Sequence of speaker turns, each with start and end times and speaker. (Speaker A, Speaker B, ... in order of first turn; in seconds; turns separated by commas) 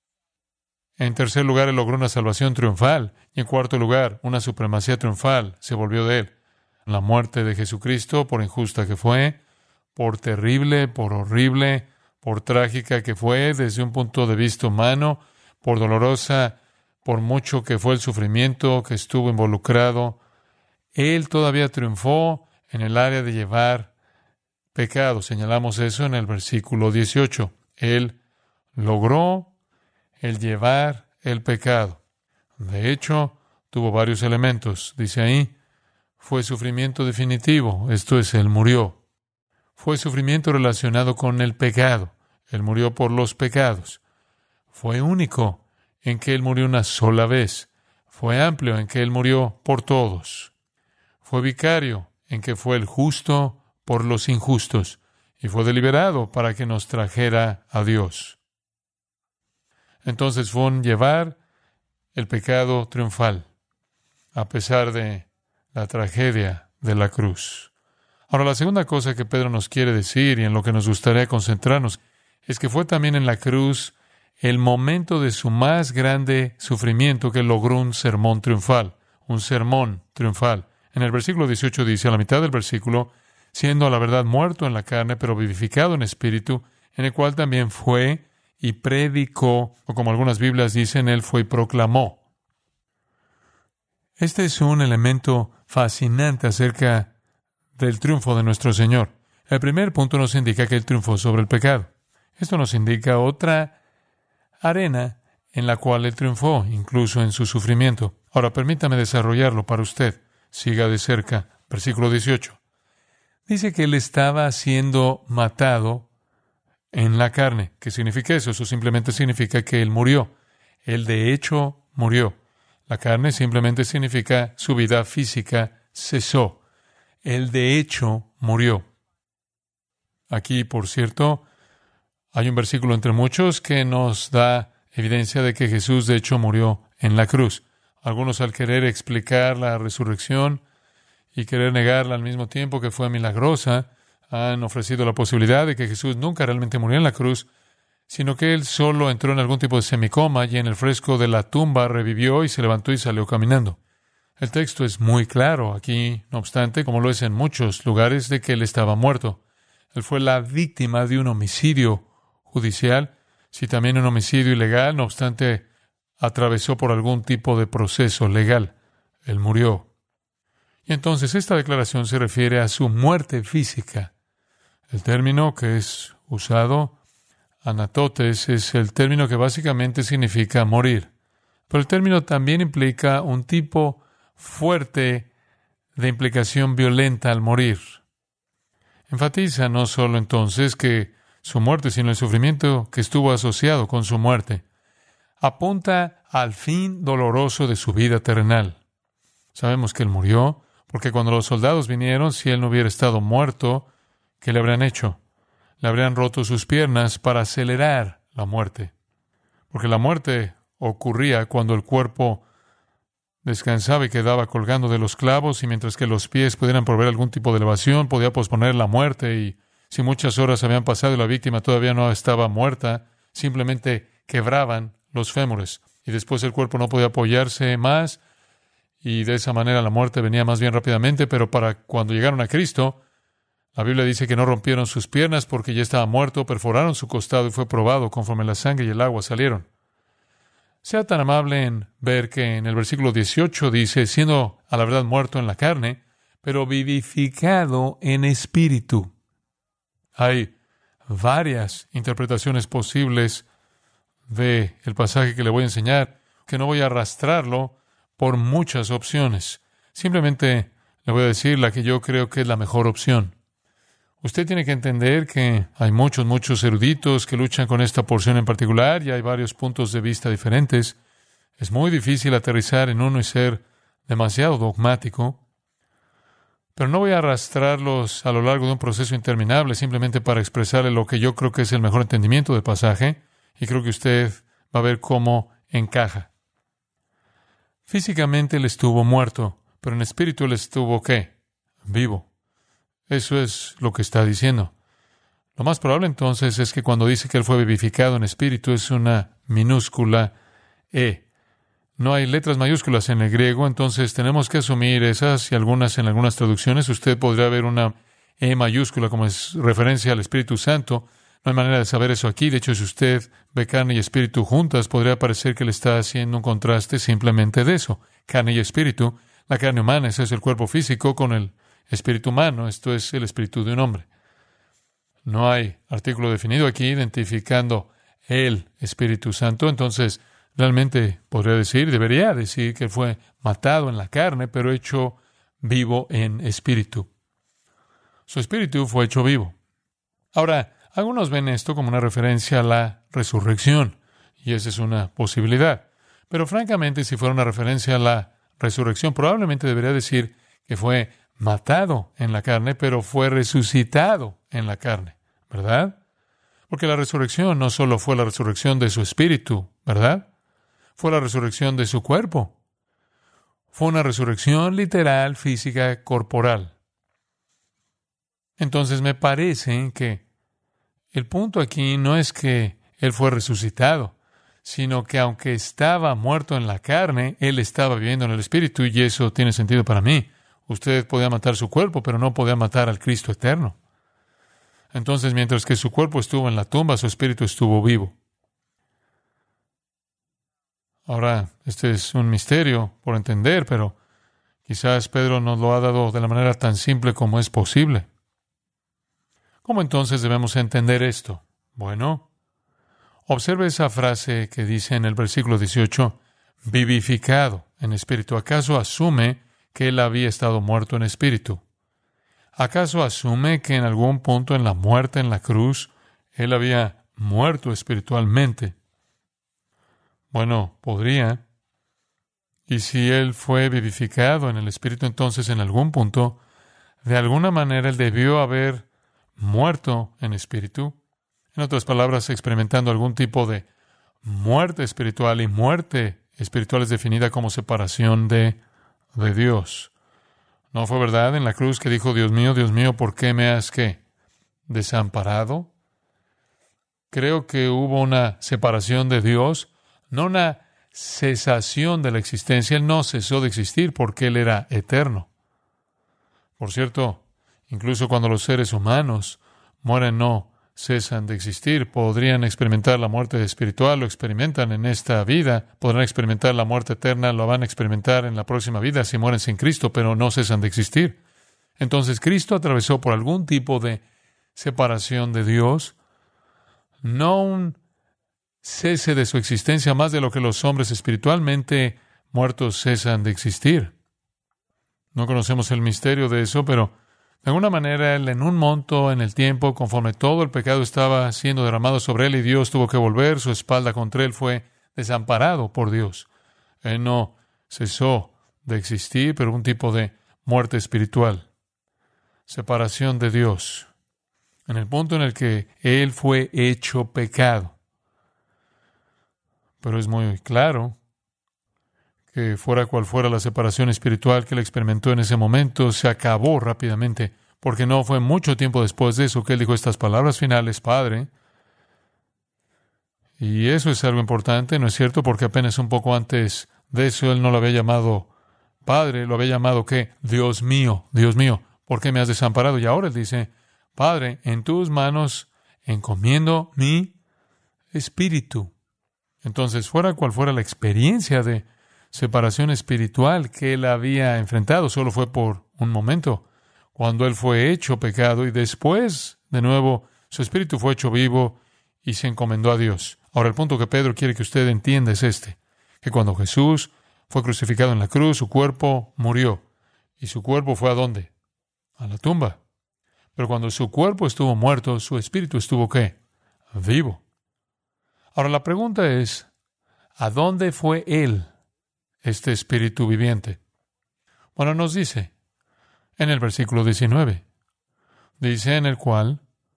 Speaker A: 1.0-6.3, Speaker A: 6.9-9.4, Speaker A: 9.9-20.2, Speaker A: 20.9-23.9, Speaker A: 24.7-28.2, Speaker A: 28.8-29.5, Speaker A: 30.2-32.0, Speaker A: 32.6-35.5, Speaker A: 36.2-39.0, Speaker A: 39.8-44.0, Speaker A: 44.7-50.5, Speaker A: 51.2-58.4, Speaker A: 60.0-61.4, Speaker A: 62.1-63.5, Speaker A: 64.3-67.7, Speaker A: 68.3-92.2, Speaker A: 94.2-97.1, Speaker A: 97.8-103.8, Speaker A: 104.6-112.6, Speaker A: 113.5-116.1, Speaker A: 116.9-120.3, Speaker A: 120.8-122.4, Speaker A: 122.9-126.6, Speaker A: 127.2-128.9, Speaker A: 130.3-131.4, Speaker A: 132.3-140.6, Speaker A: 141.3-147.5, Speaker A: 148.1-153.8, Speaker A: 154.4-159.4, Speaker A: 159.9-165.7, Speaker A: 166.2-168.7, Speaker A: 169.2-169.9, Speaker A: 170.9-174.1, Speaker A: 174.9-177.0, Speaker A: 177.6-181.1, Speaker A: 181.7-185.3, Speaker A: 186.0-188.0, Speaker A: 189.1-194.6, Speaker A: 195.4-198.8, Speaker A: 199.5-203.9, Speaker A: 204.4-205.2, Speaker A: 205.8-208.9, Speaker A: 209.7-212.4, Speaker A: 213.4-228.2, Speaker A: 229.0-233.0, Speaker A: 233.7-239.7, Speaker A: 240.8-249.1, Speaker A: 250.2-250.5, Speaker A: 251.1-253.5, Speaker A: 254.3-263.4, Speaker A: 264.2-271.0, Speaker A: 271.6-275.4, Speaker A: 276.8-286.3, Speaker A: 287.9-291.3, Speaker A: 291.9-292.3, Speaker A: 293.1-294.7, Speaker A: 295.6-300.3, Speaker A: 300.9-301.2, Speaker A: 302.0-324.1, Speaker A: 325.2-337.1, Speaker A: 338.3-339.6, Speaker A: 340.3-356.0, Speaker A: 356.7-360.3, Speaker A: 361.0-362.6, Speaker A: 363.7-366.8, Speaker A: 368.6-370.2, Speaker A: 371.1-383.8, Speaker A: 384.9-388.1, Speaker A: 391.1-394.0, Speaker A: 394.7-398.1, Speaker A: 399.6-402.3, Speaker A: 403.3-411.6, Speaker A: 412.6-418.8, Speaker A: 420.3-421.4, Speaker A: 422.7-426.4, Speaker A: 427.0-428.9, Speaker A: 429.4-431.0, Speaker A: 431.5-433.7, Speaker A: 434.2-438.6, Speaker A: 439.1-439.9, Speaker A: 440.7-444.0, Speaker A: 444.7-445.7, Speaker A: 447.1-455.3, Speaker A: 456.6-471.2, Speaker A: 471.8-474.0, Speaker A: 474.6-476.0, Speaker A: 477.0-477.8, Speaker A: 478.6-483.9, Speaker A: 485.1-496.3, Speaker A: 496.8-501.5, Speaker A: 502.5-503.9, Speaker A: 504.7-507.8, Speaker A: 509.8-511.0, Speaker A: 512.3-521.3, Speaker A: 523.4-528.3, Speaker A: 528.9-537.1, Speaker A: 537.9-538.7, Speaker A: 539.4-559.6, Speaker A: 560.2-561.3, Speaker A: 562.0-562.6, Speaker A: 563.4-566.2, Speaker A: 566.7-567.2, Speaker A: 568.4-569.5, Speaker A: 570.2-571.5, Speaker A: 572.2-573.6, Speaker A: 574.6-575.3, Speaker A: 576.2-577.4, Speaker A: 578.4-579.4